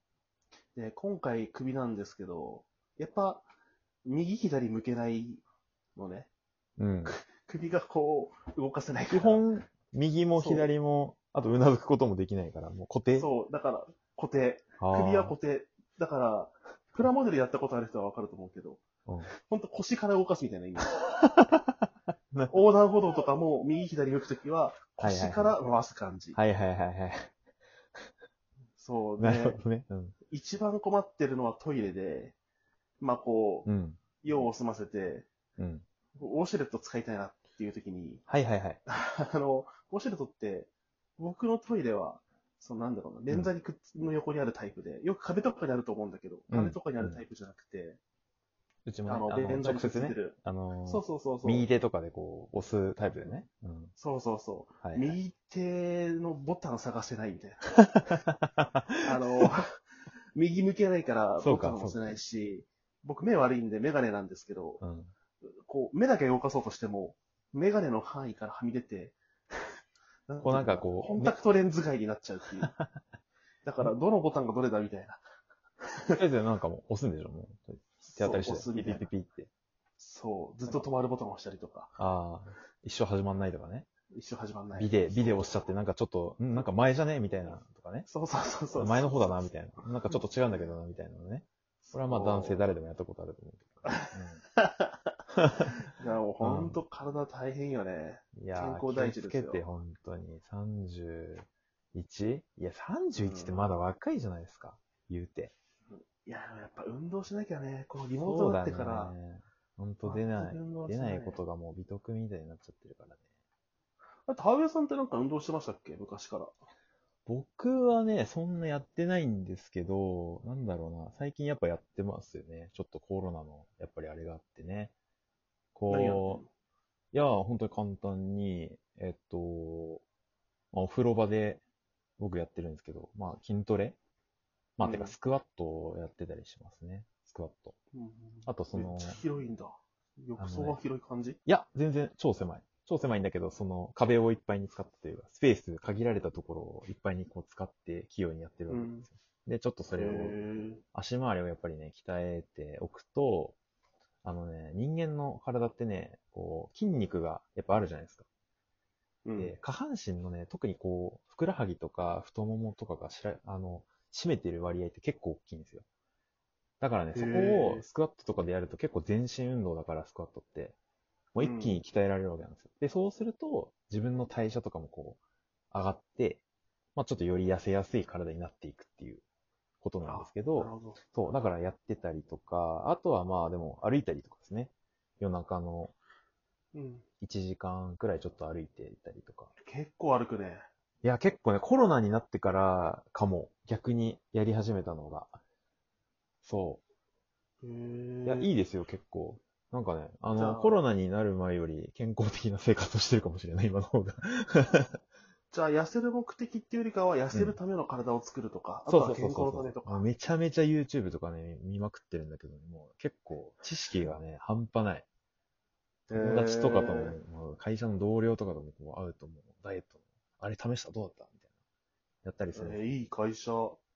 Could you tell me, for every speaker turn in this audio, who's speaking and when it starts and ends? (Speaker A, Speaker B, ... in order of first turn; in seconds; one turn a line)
Speaker A: 0.7-3.4
Speaker A: 4.0-5.4
Speaker A: 6.0-6.3
Speaker B: 6.8-7.2
Speaker A: 7.0-9.5
Speaker B: 9.1-13.3
Speaker A: 10.3-10.7
Speaker A: 13.2-18.8
Speaker B: 14.8-15.3
Speaker B: 19.1-19.3
Speaker A: 19.4-20.9
Speaker B: 20.9-21.7
Speaker A: 22.5-26.4
Speaker B: 25.0-25.5
Speaker B: 26.3-27.3
Speaker A: 28.8-29.6
Speaker B: 29.2-30.1
Speaker A: 30.3-32.4
Speaker A: 33.0-33.7
Speaker B: 33.6-34.0
Speaker A: 34.2-35.3
Speaker B: 35.6-35.8
Speaker A: 36.2-38.2
Speaker B: 38.3-38.8
Speaker A: 38.9-48.0
Speaker B: 46.5-47.2
Speaker B: 48.9-53.9
Speaker A: 49.0-50.4
Speaker A: 50.9-51.7
Speaker A: 54.0-57.7
Speaker B: 54.8-55.2
Speaker B: 58.2-59.0
Speaker A: 59.0-59.8
Speaker A: 60.3-64.8
Speaker B: 61.4-62.0
Speaker B: 64.8-65.1
Speaker A: 65.6-69.2
Speaker A: 70.3-72.7
Speaker B: 70.4-71.4
Speaker B: 72.6-72.9
Speaker A: 73.6-75.2
Speaker B: 76.2-79.5
Speaker A: 78.0-79.1
Speaker A: 80.0-81.9
Speaker B: 82.0-83.9
Speaker A: 84.1-85.6
Speaker B: 84.8-88.1
Speaker A: 88.1-90.7
Speaker B: 88.7-94.4
Speaker A: 91.8-92.6
Speaker A: 93.9-95.1
Speaker B: 95.4-95.7
Speaker A: 95.9-99.6
Speaker B: 96.4-96.8
Speaker B: 98.3-105.5
Speaker A: 103.1-103.7
Speaker A: 105.9-109.1
Speaker B: 108.2-113.2
Speaker A: 110.0-111.4
Speaker A: 114.3-116.5
Speaker B: 117.2-124.9
Speaker B: 125.7-126.4
Speaker A: 125.9-126.5
Speaker B: 127.1-130.0
Speaker B: 130.7-131.6
Speaker B: 132.2-134.0
Speaker B: 134.8-137.8
Speaker A: 134.8-135.2
Speaker A: 137.9-141.4
Speaker B: 138.4-139.2
Speaker B: 140.4-140.8
Speaker B: 141.4-150.4
Speaker A: 148.7-149.1
Speaker A: 149.9-150.8
Speaker B: 150.9-153.6
Speaker B: 154.2-158.3
Speaker A: 159.2-159.5
Speaker B: 159.4-165.8
Speaker B: 166.8-170.8
Speaker A: 167.1-167.9
Speaker B: 171.3-175.2
Speaker A: 171.4-171.8
Speaker B: 175.7-176.4
Speaker B: 176.9-179.2
Speaker B: 179.8-185.9
Speaker A: 180.0-181.0
Speaker A: 186.7-187.0
Speaker B: 187.2-189.5
Speaker A: 189.6-190.6
Speaker B: 191.0-195.4
Speaker B: 196.4-196.8
Speaker A: 197.6-198.5
Speaker B: 198.2-205.0
Speaker A: 200.3-200.8
Speaker A: 205.5-210.0
Speaker B: 207.3-207.6
Speaker B: 208.9-215.1
Speaker A: 216.1-217.2
Speaker B: 216.1-221.4
Speaker B: 222.2-222.8
Speaker A: 222.5-223.8